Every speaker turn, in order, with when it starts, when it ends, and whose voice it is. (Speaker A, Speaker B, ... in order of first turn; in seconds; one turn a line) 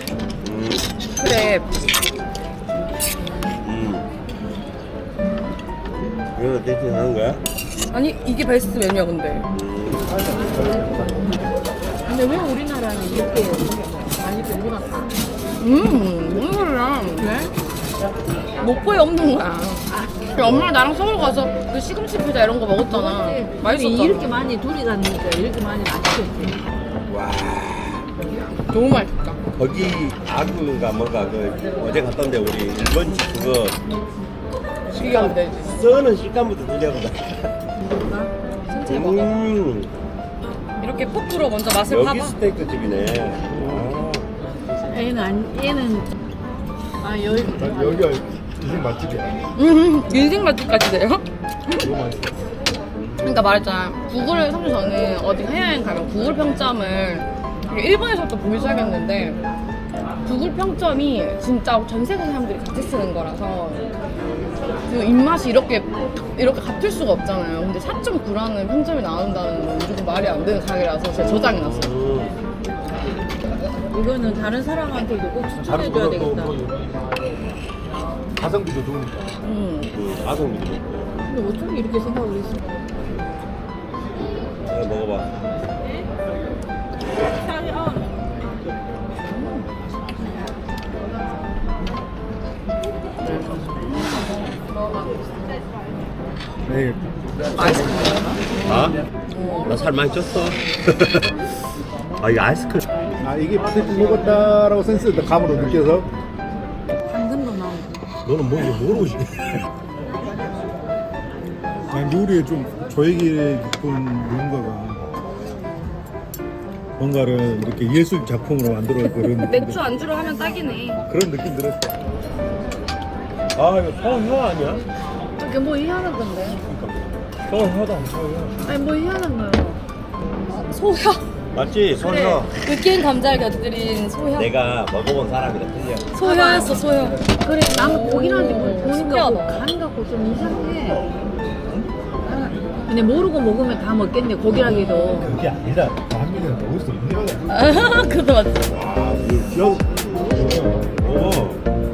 Speaker A: 0.4-0.9
Speaker B: 1.1-1.6
Speaker A: 3.6-4.1
Speaker A: 6.3-7.4
Speaker B: 7.9-9.5
Speaker A: 9.5-10.1
Speaker C: 10.0-11.4
Speaker D: 12.1-15.1
Speaker B: 15.6-17.2
Speaker D: 17.2-17.5
Speaker B: 18.6-24.4
Speaker C: 20.4-20.7
Speaker D: 22.9-26.7
Speaker A: 27.1-28.1
Speaker B: 28.7-29.4
Speaker A: 29.5-33.8
Speaker B: 34.9-35.8
Speaker A: 34.9-37.5
Speaker D: 37.8-38.3
Speaker B: 38.6-39.4
Speaker A: 38.8-39.9
Speaker B: 40.8-42.4
Speaker A: 41.9-44.3
Speaker C: 43.5-43.9
Speaker D: 44.9-46.1
Speaker D: 47.0-48.1
Speaker C: 47.6-49.4
Speaker B: 49.5-51.2
Speaker C: 51.8-52.5
Speaker B: 53.2-59.4
Speaker B: 60.2-63.9
Speaker B: 64.9-72.0
Speaker A: 71.1-72.3
Speaker D: 73.9-76.6
Speaker C: 75.6-76.6
Speaker C: 78.4-79.3
Speaker B: 79.4-79.9
Speaker A: 79.9-81.1
Speaker D: 81.2-82.7
Speaker A: 84.7-85.3
Speaker B: 89.3-89.7
Speaker B: 93.3-94.2
Speaker C: 96.6-97.1
Speaker B: 97.5-98.8
Speaker A: 98.6-99.0
Speaker B: 99.3-99.8
Speaker A: 99.6-101.3
Speaker A: 102.2-102.9
Speaker C: 103.2-106.1
Speaker D: 107.1-108.0
Speaker A: 108.2-109.6
Speaker C: 111.9-115.0
Speaker C: 117.0-119.8
Speaker B: 119.0-121.0
Speaker C: 121.1-121.8
Speaker A: 123.5-124.8
Speaker B: 125.4-126.6
Speaker A: 127.5-128.5
Speaker D: 128.6-129.8
Speaker B: 130.5-131.3
Speaker A: 131.5-132.5
Speaker B: 132.0-134.5
Speaker A: 134.3-136.1
Speaker B: 136.1-137.2
Speaker D: 136.2-136.8
Speaker D: 137.4-141.1
Speaker B: 137.8-139.6
Speaker D: 142.9-145.3
Speaker C: 144.5-147.7
Speaker B: 144.6-145.2
Speaker B: 147.5-148.8
Speaker A: 148.7-151.6
Speaker D: 150.2-150.4
Speaker C: 150.2-151.5